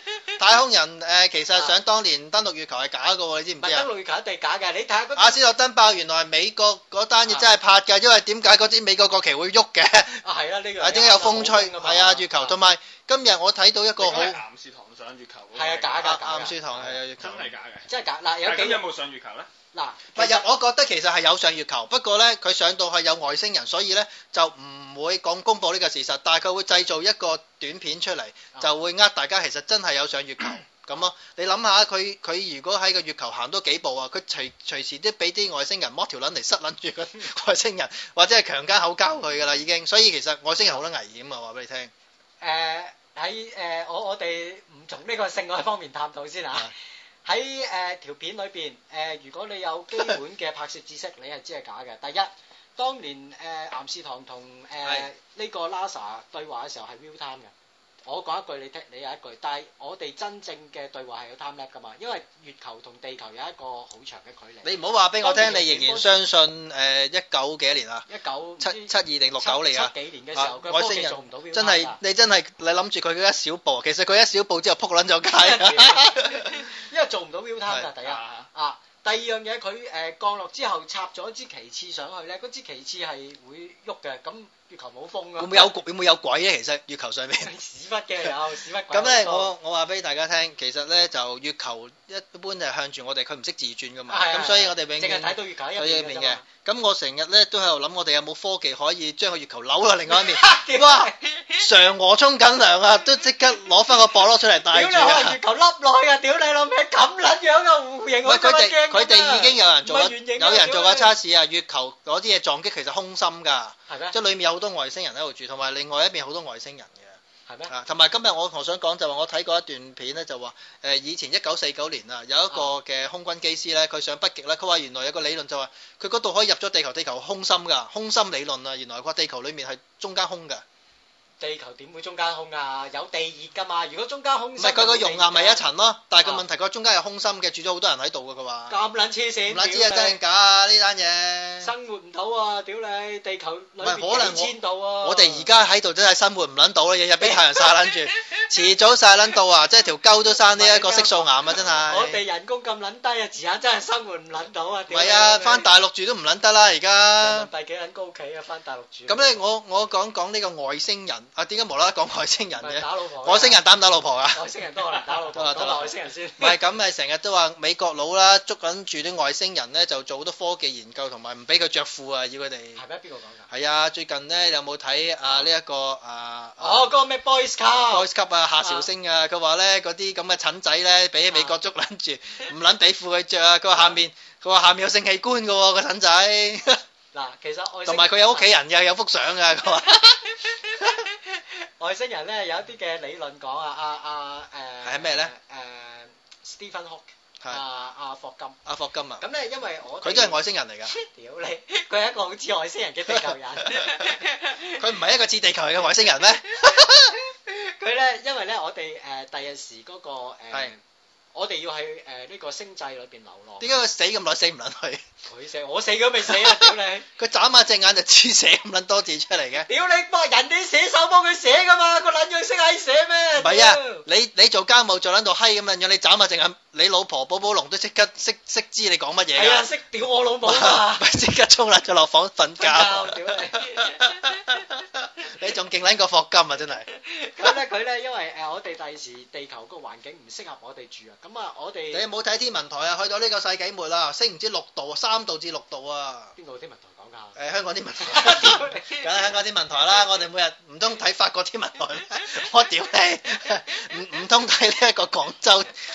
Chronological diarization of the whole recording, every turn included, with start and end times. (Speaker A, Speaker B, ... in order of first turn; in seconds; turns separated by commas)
Speaker A: 0.4-3.9, Speaker B: 3.6-5.5, Speaker A: 5.2-10.2, Speaker B: 10.2-12.6, Speaker A: 10.8-14.4, Speaker C: 14.0-16.1, Speaker B: 15.5-17.0, Speaker A: 16.0-17.5, Speaker C: 17.2-17.9, Speaker B: 17.9-18.9, Speaker C: 18.4-19.5, Speaker B: 19.7-20.5, Speaker A: 20.1-41.9, Speaker B: 42.4-46.7, Speaker B: 47.2-57.5, Speaker A: 54.8-55.1, Speaker B: 58.0-66.2, Speaker A: 64.6-68.0, Speaker B: 68.1-72.0, Speaker A: 68.6-76.7, Speaker B: 75.3-85.7, Speaker C: 78.0-78.5, Speaker A: 85.4-87.5, Speaker B: 87.4-89.5, Speaker A: 88.9-105.4, Speaker B: 94.1-96.4, Speaker B: 100.1-101.5, Speaker B: 104.7-111.1, Speaker A: 108.2-117.2, Speaker B: 113.9-114.2, Speaker B: 117.5-117.7, Speaker A: 117.7-130.6, Speaker B: 131.4-135.6, Speaker A: 134.6-138.8, Speaker B: 138.7-140.2, Speaker A: 139.5-141.7, Speaker B: 141.6-145.5, Speaker A: 143.8-152.2, Speaker B: 147.2-147.9, Speaker B: 150.5-155.7, Speaker A: 154.9-157.5, Speaker B: 157.2-159.5, Speaker A: 159.1-164.4, Speaker B: 162.6-163.6, Speaker B: 164.3-166.6, Speaker A: 165.3-172.8, Speaker B: 172.8-173.5, Speaker A: 173.5-176.9, Speaker B: 175.2-175.5, Speaker B: 176.6-178.1, Speaker A: 177.8-186.8, Speaker B: 178.6-178.9, Speaker B: 181.3-181.6, Speaker B: 187.1-188.5, Speaker A: 187.8-190.9, Speaker B: 190.5-198.6, Speaker A: 194.8-195.3, Speaker A: 198.7-199.2, Speaker B: 199.2-204.8, Speaker A: 200.0-200.9, Speaker A: 203.1-207.1, Speaker B: 206.5-210.8, Speaker B: 211.3-213.8, Speaker A: 213.6-215.0, Speaker B: 215.2-217.1, Speaker A: 216.3-219.7, Speaker B: 219.6-224.0, Speaker A: 223.4-229.7, Speaker B: 229.3-231.1, Speaker A: 230.4-236.9, Speaker B: 232.6-234.3, Speaker B: 236.9-242.1, Speaker A: 241.9-246.3, Speaker B: 246.4-247.4, Speaker A: 247.3-255.7, Speaker B: 248.0-249.1